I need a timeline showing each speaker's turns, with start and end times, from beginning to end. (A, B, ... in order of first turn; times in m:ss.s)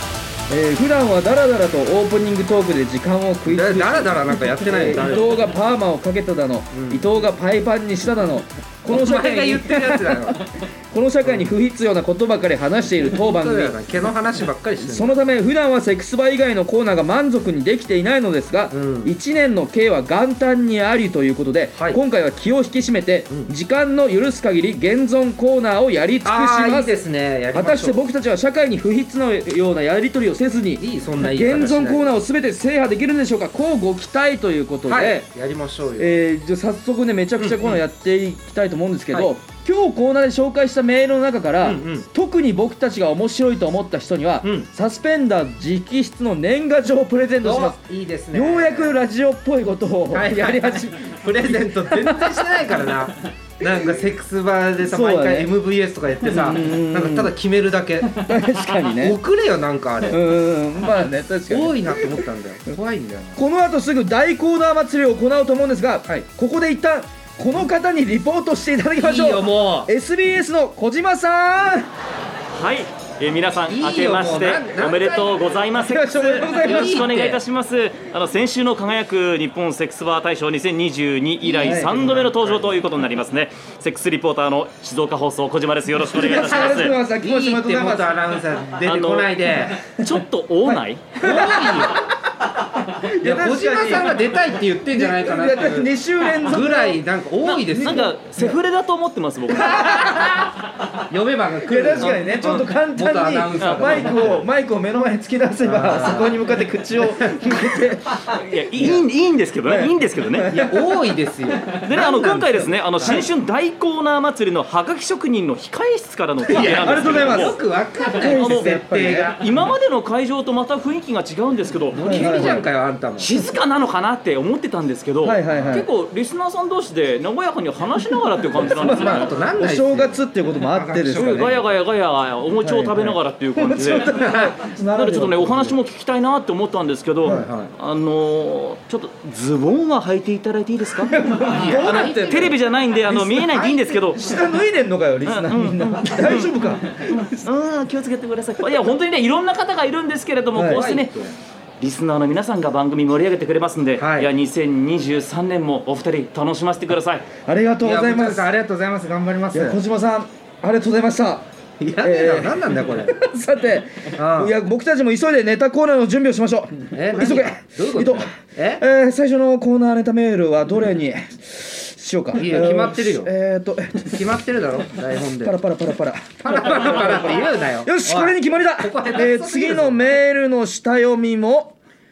0:00.5-0:13.8 A
0:03.5-0:05.4 B
0:06.7-0:07.1 B
0:08.9-0:10.4 B
0:11.2-0:11.5 B
0:13.0-0:15.2 B
0:14.8-0:27.0 A
0:18.7-0:19.1 B
0:21.7-0:22.0 B
0:26.2-0:28.0 B
0:27.5-0:35.2 A
0:30.8-0:32.1 B
0:34.9-0:36.1 B
0:36.0-0:47.8 A
0:37.4-0:37.8 B
0:41.6-0:42.1 B
0:44.4-0:44.7 B
0:47.4-0:49.0 B
0:48.3-0:52.6 A
0:50.1-0:58.2 B
0:53.6-0:53.9 A
0:54.8-0:55.5 A
0:56.2-0:57.3 A
0:58.1-0:59.2 A
0:58.9-1:00.2 B
1:00.0-1:02.2 A
1:01.5-1:03.4 B
1:03.4-1:11.9 A
1:09.0-1:09.9 B
1:12.5-1:26.9 C
1:13.7-1:15.5 B
1:15.8-1:17.1 A
1:16.3-1:17.4 B
1:21.4-1:22.6 B
1:21.6-1:22.1 A
1:26.0-1:28.2 A
1:26.2-1:29.8 B
1:28.8-1:31.2 C
1:30.6-1:32.1 A
1:31.2-1:32.1 B
1:33.0-1:34.4 A
1:33.2-1:38.1 B
1:34.9-1:37.0 A
1:37.4-1:40.5 C
1:37.8-1:38.6 A
1:39.5-1:40.5 A
1:41.1-1:44.4 B
1:41.6-1:49.0 A
1:45.6-1:46.4 B
1:47.1-1:47.8 B
1:48.2-1:50.5 C
1:49.6-1:50.9 A
1:50.5-1:53.2 B
1:51.7-1:57.6 C
1:51.9-1:53.2 A
1:56.5-1:59.6 B
1:56.5-1:57.6 A
1:58.2-1:59.3 A
1:58.2-1:58.7 C
1:59.4-2:02.5 C
2:01.9-2:03.3 B
2:02.0-2:02.6 A
2:03.2-2:09.4 C
2:05.2-2:05.9 A
2:05.5-2:05.8 B
2:08.6-2:11.6 A
2:08.6-2:11.7 B
2:11.1-2:24.4 C
2:12.6-2:15.8 A
2:14.2-2:14.5 B
2:17.2-2:17.7 B
2:17.2-2:17.5 A
2:21.0-2:22.6 A
2:21.5-2:22.6 B
2:23.1-2:27.5 A
2:23.5-2:23.9 B
2:25.2-2:31.2 C
2:30.5-2:30.8 A
2:30.6-2:31.3 B
2:31.8-2:37.3 C
2:34.0-2:34.3 B
2:37.4-2:38.5 A
2:37.8-2:39.8 B
2:39.5-2:41.5 A
2:41.8-2:43.2 B
2:42.0-2:54.2 A
2:44.1-2:44.5 B
2:46.9-2:48.8 B
2:52.3-2:53.3 B
2:54.0-2:55.6 B
2:55.4-3:01.8 A
2:56.4-3:00.2 B